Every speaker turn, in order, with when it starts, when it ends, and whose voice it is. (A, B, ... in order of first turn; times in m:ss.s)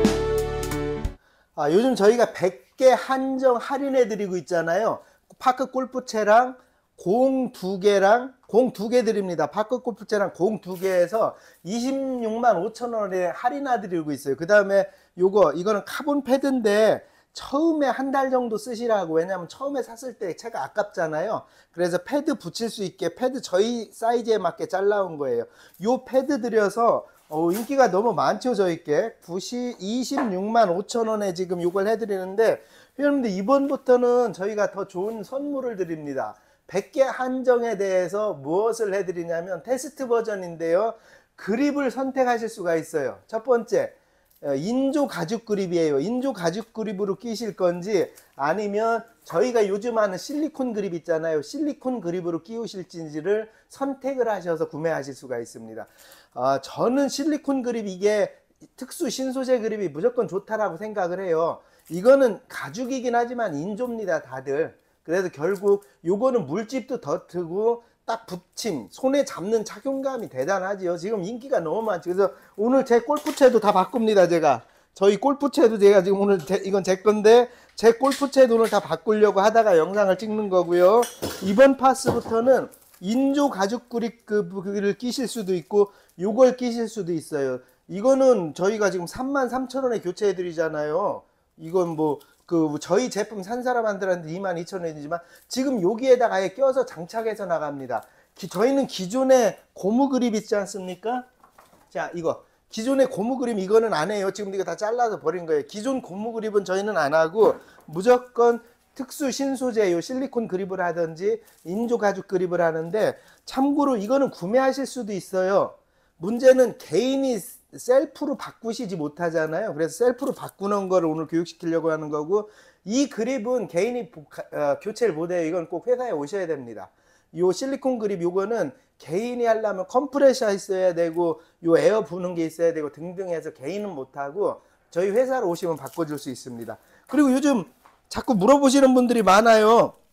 0:01.6-1:41.3 A
1:41.9-2:19.9 A